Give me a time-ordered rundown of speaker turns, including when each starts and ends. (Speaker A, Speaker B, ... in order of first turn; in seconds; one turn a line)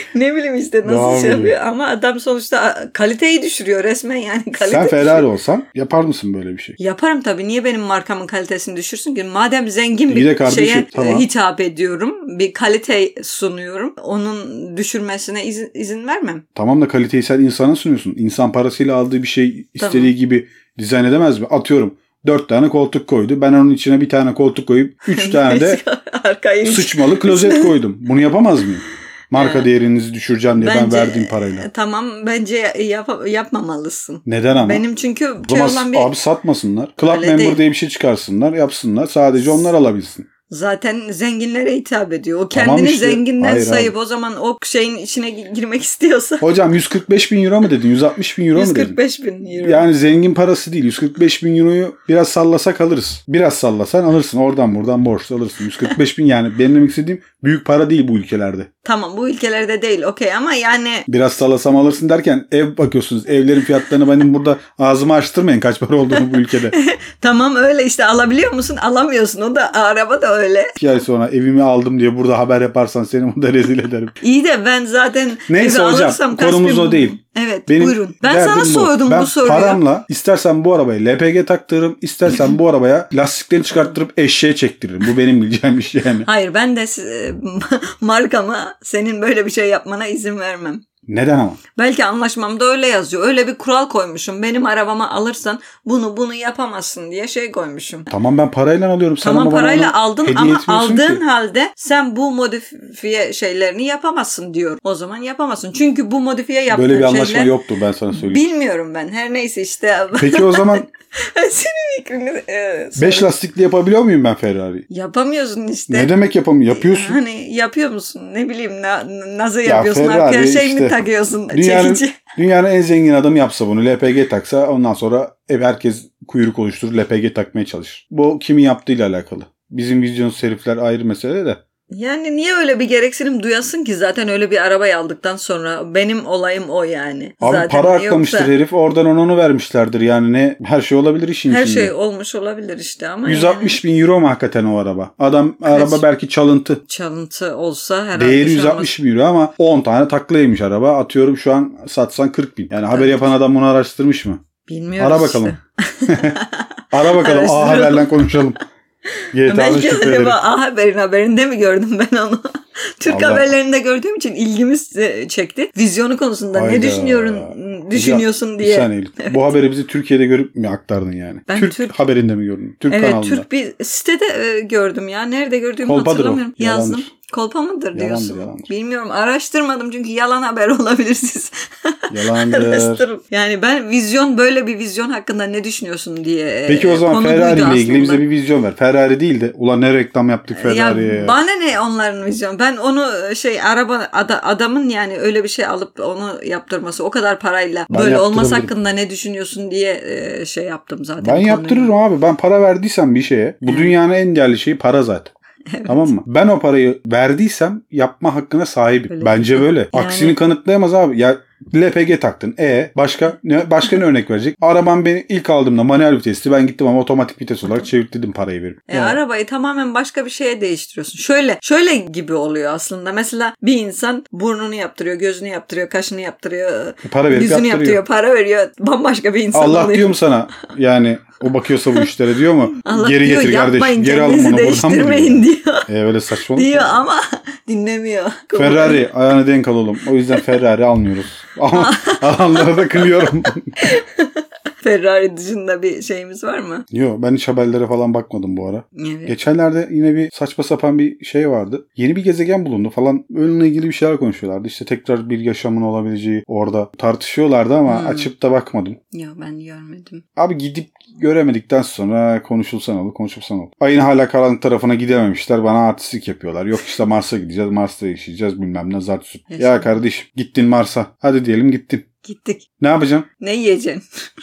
Speaker A: 0.1-5.3
Speaker B: 0.8-1.6
Speaker B: 4.6-6.8
Speaker A: 6.8-16.4
Speaker B: 10.1-11.3
Speaker B: 16.6-25.8
Speaker A: 19.8-20.1
Speaker A: 25.1-27.8
Speaker B: 26.6-31.7
Speaker A: 29.3-29.7
Speaker A: 30.6-36.1
Speaker B: 34.3-34.9
Speaker B: 35.5-40.3
Speaker A: 37.0-37.6
Speaker A: 40.5-46.4
Speaker B: 42.5-43.9
Speaker B: 46.4-49.0
Speaker A: 48.5-49.9
Speaker B: 49.5-58.7
Speaker A: 58.8-61.1
Speaker B: 61.1-66.8
Speaker A: 66.1-70.8
Speaker B: 70.8-74.2
Speaker A: 74.2-79.8
Speaker B: 75.5-86.3
Speaker A: 86.2-90.8
Speaker B: 91.1-91.6
Speaker A: 91.8-98.1
Speaker B: 98.1-101.2
Speaker A: 99.2-107.5
Speaker B: 106.7-108.5
Speaker A: 108.1-113.3
Speaker B: 110.2-110.9
Speaker B: 113.0-114.9
Speaker A: 114.9-116.1
Speaker B: 115.9-117.2
Speaker A: 116.7-122.2
Speaker B: 119.7-121.0
Speaker B: 121.5-131.6
Speaker A: 131.9-138.5
Speaker B: 137.4-141.9
Speaker A: 141.5-143.8
Speaker B: 143.2-146.8
Speaker A: 145.7-146.1
Speaker A: 146.9-148.9
Speaker B: 148.2-154.4
Speaker A: 152.9-153.3
Speaker A: 154.7-158.4
Speaker B: 155.0-155.5
Speaker B: 156.1-156.4
Speaker B: 156.9-158.6
Speaker B: 159.3-160.4
Speaker A: 159.4-169.5
Speaker B: 163.1-163.5
Speaker B: 166.5-173.5
Speaker A: 171.5-171.9
Speaker A: 172.9-188.2
Speaker B: 175.8-177.1
Speaker B: 177.9-178.7
Speaker B: 182.1-183.1
Speaker B: 186.7-191.4
Speaker A: 190.5-201.9
Speaker B: 197.9-198.7
Speaker B: 201.2-205.3
Speaker A: 203.7-204.0
Speaker A: 205.7-206.1
Speaker B: 205.9-219.2
Speaker A: 209.1-210.4
Speaker A: 218.9-230.2
Speaker B: 227.1-228.0
Speaker B: 229.5-237.0
Speaker A: 232.8-235.9
Speaker A: 236.5-239.1
Speaker B: 238.6-243.8
Speaker A: 241.7-243.3
Speaker A: 243.8-246.9
Speaker B: 246.9-259.0
Speaker A: 249.0-249.4
Speaker A: 257.9-258.3
Speaker A: 259.1-260.2
Speaker B: 260.4-272.1
Speaker A: 269.5-270.0
Speaker A: 272.2-272.7
Speaker B: 272.8-273.3
Speaker A: 273.4-274.0